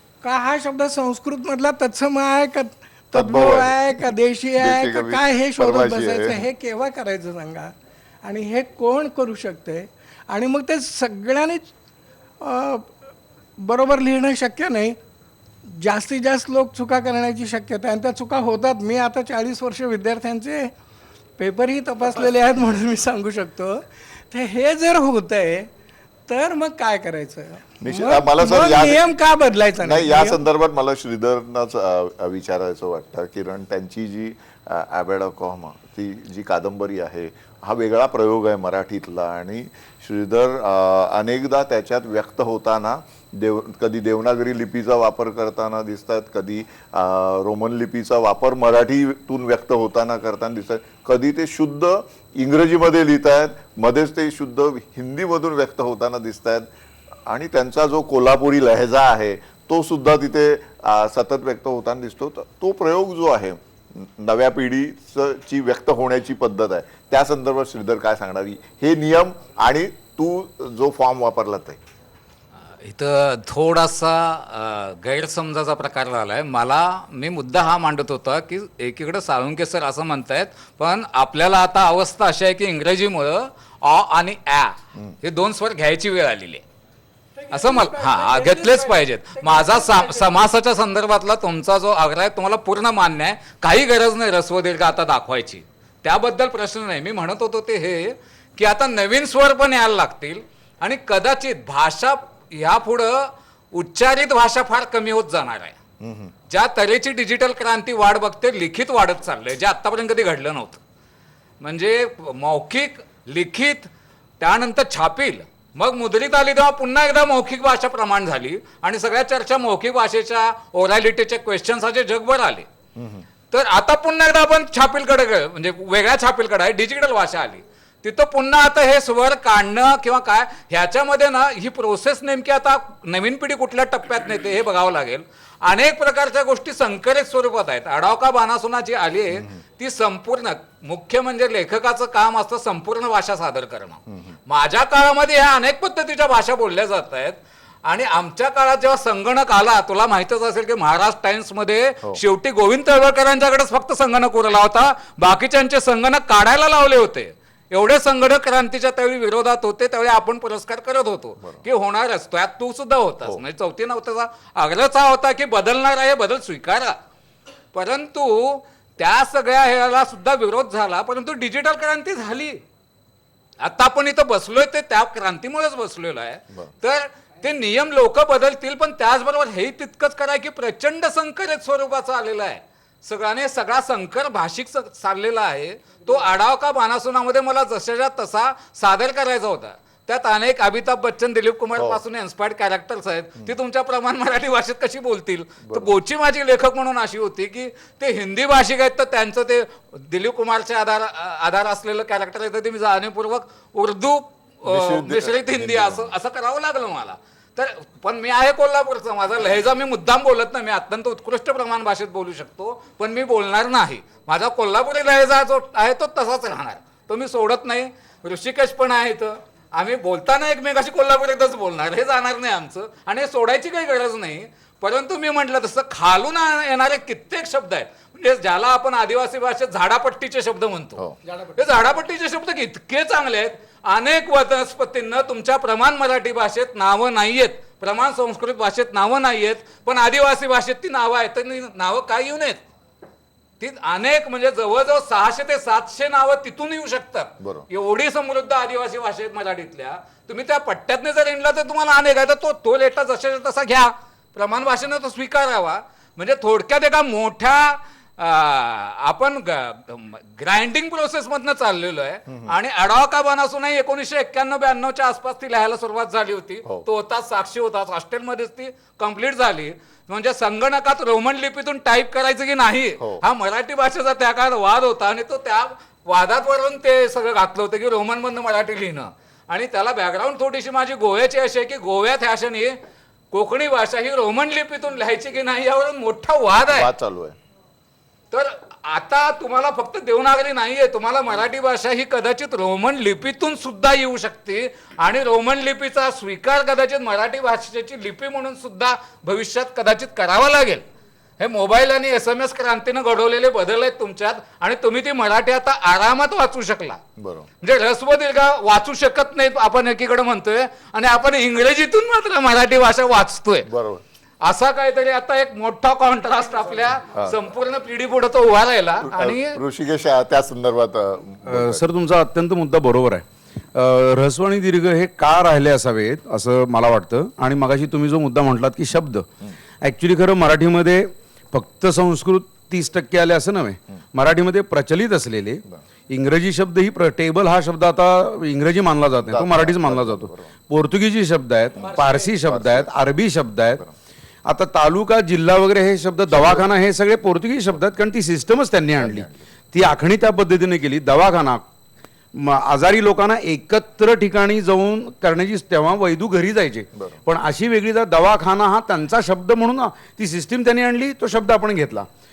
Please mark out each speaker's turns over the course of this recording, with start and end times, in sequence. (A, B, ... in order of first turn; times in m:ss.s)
0:00.2-0:07.7 A
0:03.1-0:04.0 B
0:04.6-0:06.4 B
0:08.2-0:11.7 A
0:12.4-0:12.9 A
0:13.6-0:15.0 A
0:15.6-0:20.7 A
0:21.4-0:25.7 A
0:26.3-0:30.4 A
0:27.8-0:29.0 B
0:29.8-0:56.7 B
0:57.2-1:11.8 B
1:12.8-1:26.6 C
1:27.4-1:30.3 A
1:27.5-1:45.8 C
1:46.0-1:46.3 B
1:46.5-1:50.8 C
1:51.6-2:02.7 C
2:03.0-2:03.2 B
2:03.5-2:47.0 C
2:47.7-2:52.6 C
2:53.6-4:02.6 C
3:24.6-3:26.1 B
4:03.6-4:42.8 C
4:07.4-4:07.6 B
4:22.3-4:22.5 B
4:43.3-4:46.9 C
4:46.7-4:47.4 B
4:48.3-5:00.8 C
5:01.4-5:07.0 C
5:07.2-5:07.5 B
5:07.6-5:13.7 C
5:13.6-5:14.0 B
5:14.4-5:19.6 C
5:19.0-5:21.8 B
5:21.5-5:29.3 D
5:29.8-5:43.8 D
5:39.2-5:40.5 B
5:41.9-5:42.9 B
5:44.4-5:51.6 D
5:46.3-5:46.7 B
5:49.0-5:49.4 B
5:52.3-6:02.1 D
5:56.9-5:57.2 B